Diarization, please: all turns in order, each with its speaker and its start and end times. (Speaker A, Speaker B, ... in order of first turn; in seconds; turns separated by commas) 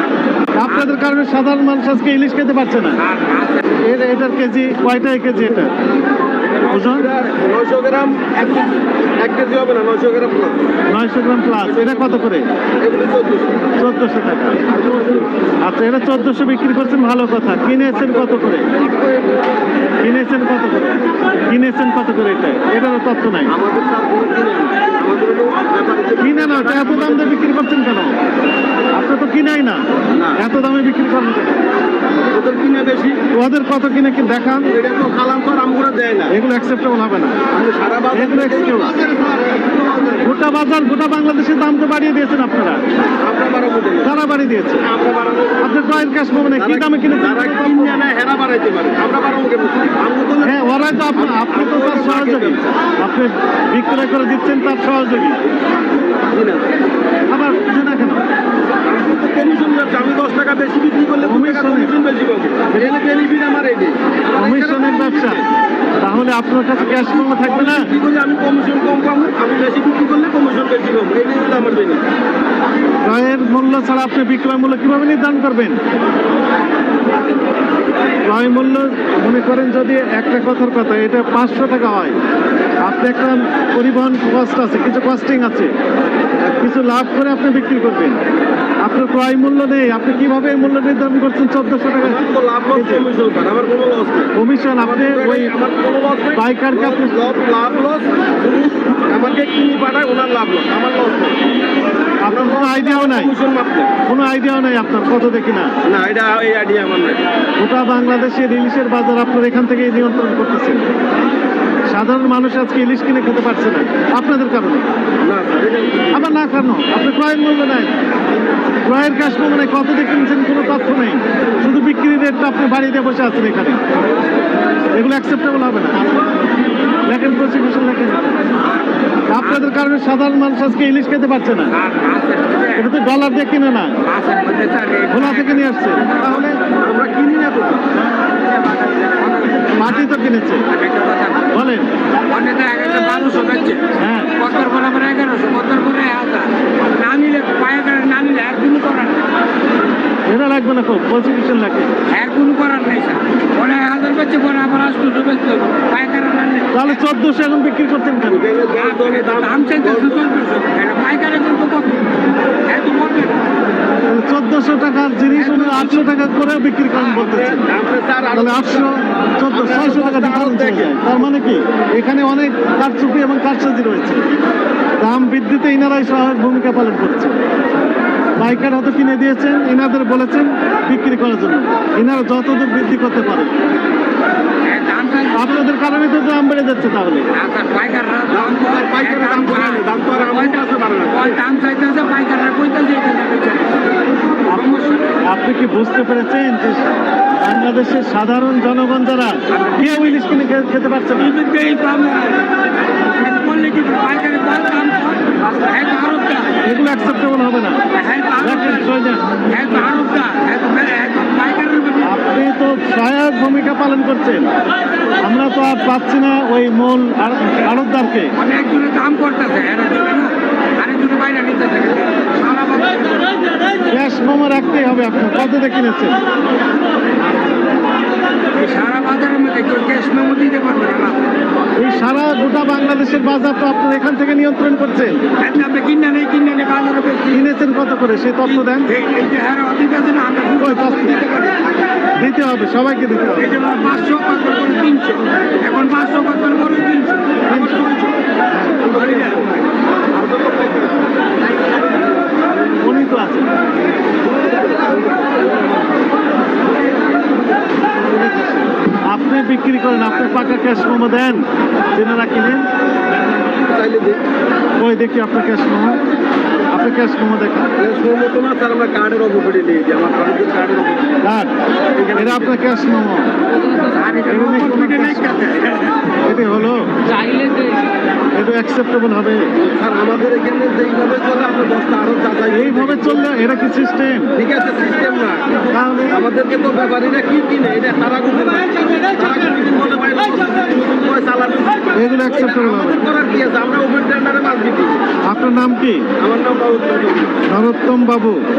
Speaker A: 0.6-3.0, Speaker B: 0.7-0.9, Speaker B: 3.0-3.6, Speaker A: 3.8-5.8, Speaker C: 6.6-10.6, Speaker A: 6.6-7.1, Speaker A: 10.9-12.5, Speaker C: 11.6-13.6, Speaker A: 13.8-14.8, Speaker C: 14.8-15.2, Speaker A: 15.6-18.7, Speaker C: 17.9-19.3, Speaker A: 20.0-23.6, Speaker C: 23.5-27.4, Speaker A: 26.2-28.2, Speaker A: 28.9-31.7, Speaker C: 30.1-30.4, Speaker C: 32.3-33.2, Speaker A: 33.3-34.8, Speaker C: 34.7-36.3, Speaker A: 36.3-37.5, Speaker C: 37.5-40.2, Speaker A: 38.1-39.0, Speaker A: 40.2-42.9, Speaker C: 43.2-44.1, Speaker A: 44.0-44.9, Speaker C: 44.8-45.7, Speaker A: 45.6-48.0, Speaker C: 46.6-52.7, Speaker A: 50.4-55.4, Speaker C: 56.2-56.7, Speaker A: 57.3-58.3, Speaker C: 58.8-65.4, Speaker A: 61.2-61.9, Speaker A: 64.3-65.4, Speaker A: 66.0-67.9, Speaker C: 66.8-72.0, Speaker A: 73.0-75.8, Speaker A: 78.2-82.2, Speaker A: 82.8-85.7, Speaker A: 86.5-88.2, Speaker A: 88.8-92.2, Speaker C: 92.0-101.4, Speaker A: 92.7-93.1, Speaker A: 94.3-95.5, Speaker A: 96.4-97.2, Speaker A: 102.2-103.3, Speaker C: 102.3-103.9, Speaker A: 104.1-105.7, Speaker C: 105.8-107.2, Speaker A: 107.6-110.8, Speaker A: 111.9-114.9, Speaker C: 115.2-116.3, Speaker A: 116.1-118.0, Speaker A: 118.8-123.8, Speaker A: 124.9-126.1, Speaker A: 127.1-128.4, Speaker A: 129.3-131.8, Speaker B: 129.4-129.7, Speaker B: 131.7-132.9, Speaker A: 132.8-133.9, Speaker B: 134.0-136.5, Speaker A: 135.1-136.6, Speaker C: 136.8-137.9, Speaker B: 138.9-140.2, Speaker A: 139.7-140.7, Speaker B: 140.7-141.5, Speaker A: 141.5-141.9, Speaker B: 142.3-149.2, Speaker A: 144.0-144.4, Speaker A: 150.3-151.9, Speaker B: 152.1-157.0, Speaker A: 156.7-158.5, Speaker C: 158.3-160.2, Speaker B: 158.8-162.1, Speaker B: 162.7-163.4, Speaker A: 164.1-167.7, Speaker B: 165.3-166.1, Speaker C: 167.1-168.9, Speaker A: 168.3-174.2, Speaker C: 169.5-171.3, Speaker A: 175.0-177.4, Speaker A: 178.4-183.5, Speaker B: 184.6-185.6, Speaker A: 185.3-187.3, Speaker B: 187.3-195.3, Speaker C: 188.3-191.4, Speaker A: 194.5-196.9, Speaker A: 197.4-201.4, Speaker B: 199.5-200.3, Speaker B: 201.2-206.6, Speaker A: 206.6-207.8, Speaker B: 207.9-208.9, Speaker A: 208.4-209.9, Speaker B: 209.5-212.2, Speaker A: 212.0-214.5, Speaker A: 215.2-218.3, Speaker B: 218.3-223.4, Speaker A: 223.9-226.2, Speaker B: 228.5-231.3, Speaker A: 231.8-235.3, Speaker B: 235.4-237.5, Speaker A: 237.3-238.9, Speaker B: 238.4-241.5, Speaker A: 240.6-241.2, Speaker A: 242.2-243.6, Speaker B: 243.3-248.2, Speaker A: 247.5-247.9, Speaker A: 248.6-249.1, Speaker B: 248.9-249.4, Speaker C: 249.0-249.5, Speaker C: 250.1-251.1, Speaker A: 252.8-253.5, Speaker C: 254.7-255.4, Speaker A: 258.1-262.7, Speaker C: 263.6-264.2, Speaker A: 264.8-266.0, Speaker A: 266.7-267.7, Speaker C: 267.8-271.2, Speaker A: 271.2-271.6, Speaker C: 271.9-272.6, Speaker A: 272.1-273.3, Speaker B: 273.6-276.1, Speaker A: 274.3-275.3, Speaker A: 276.2-276.9, Speaker A: 278.3-279.5, Speaker C: 279.6-283.2, Speaker A: 282.5-284.4, Speaker C: 284.4-285.5, Speaker A: 285.7-286.2, Speaker C: 286.1-295.0, Speaker A: 291.9-293.1, Speaker A: 295.3-296.1, Speaker C: 296.2-297.4, Speaker A: 297.5-298.4